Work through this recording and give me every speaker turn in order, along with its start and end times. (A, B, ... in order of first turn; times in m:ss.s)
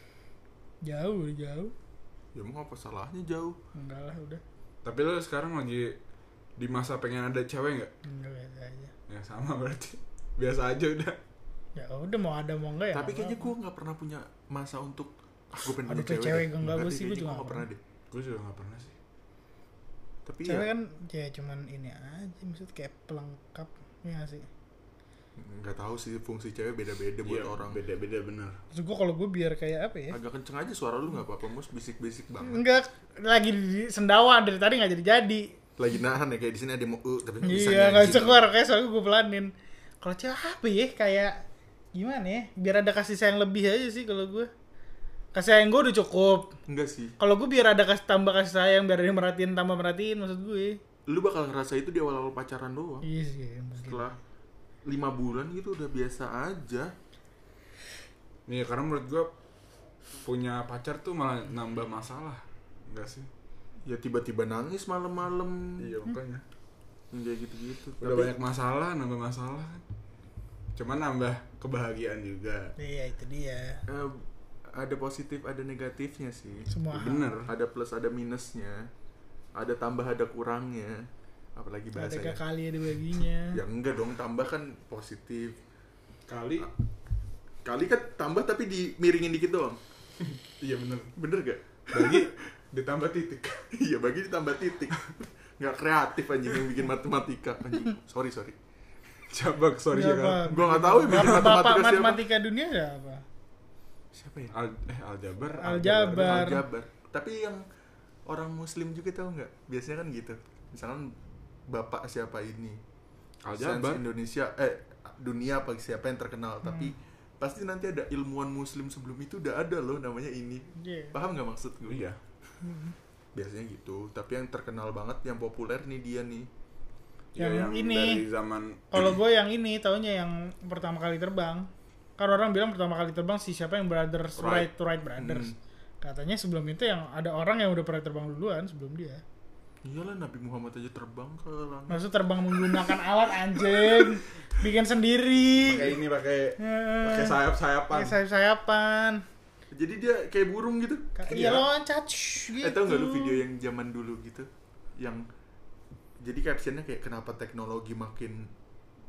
0:00.8-0:01.7 A
0:02.3-0:03.6 B
0:03.7-0:04.4 A
0:04.8-0:06.0 C
0:06.6-0:07.9 C
0:08.0-0:08.9 A
0:09.1-0:11.2 C
0:11.8-0:13.5 A
0:12.9-0:17.8 B
0:15.8-0:17.6 A
0:18.1-0:18.9 C
0:20.2-0:20.7 B
0:20.4-0:24.4 A
0:25.4-0:27.8 B
0:27.2-0:28.6 C
0:28.7-0:30.2 A
0:30.1-0:32.6 B
0:32.4-0:35.5 A
0:35.8-0:38.4 B
0:37.4-0:41.4 A
0:41.9-0:44.5 A
0:45.3-0:46.5 A
0:46.7-0:47.1 B
0:47.2-0:50.8 A
0:51.1-0:53.1 B
0:53.0-0:54.0 A
0:53.8-0:54.2 B
0:54.9-0:56.9 B
0:58.5-0:59.3 C
1:00.1-1:03.3 C
1:03.9-1:05.8 B
1:05.8-1:06.4 C
1:07.1-1:08.3 B
1:08.0-1:09.8 C
1:10.8-1:12.7 C
1:12.8-1:13.8 A
1:13.9-1:16.7 B
1:16.7-1:17.3 A
1:16.9-1:17.5 C
1:17.4-1:18.9 B
1:19.6-1:22.4 B
1:21.9-1:23.6 A
1:23.5-1:25.6 B
1:26.3-1:26.7 C
1:27.6-1:29.8 B
1:30.2-1:31.1 C
1:31.1-1:32.3 B
1:31.9-1:33.6 C
1:33.7-1:35.0 B
1:35.6-1:38.6 B
1:39.3-1:41.5 C
1:39.9-1:43.2 A
1:40.4-1:42.2 B
1:44.1-1:44.5 B
1:44.5-1:46.5 C
1:45.6-1:46.6 A
1:46.2-1:47.6 B
1:48.3-1:51.2 B
1:51.7-1:52.8 B
1:53.4-1:54.0 C
1:53.5-2:02.0 B
1:56.6-1:56.9 A
2:00.8-2:01.1 A
2:01.9-2:02.2 C
2:02.6-2:02.9 A
2:03.3-2:06.5 B
2:07.3-2:08.9 C
2:07.4-2:08.2 A
2:08.9-2:19.2 A
2:14.4-2:14.7 C
2:15.2-2:15.5 B
2:19.8-2:22.0 B
2:21.9-2:26.0 A
2:25.6-2:28.2 C
2:26.6-2:27.4 A
2:27.9-2:29.2 A
2:29.7-2:31.6 B
2:31.2-2:33.4 A
2:31.3-2:31.6 C
2:32.6-2:35.2 B
2:36.2-2:38.5 B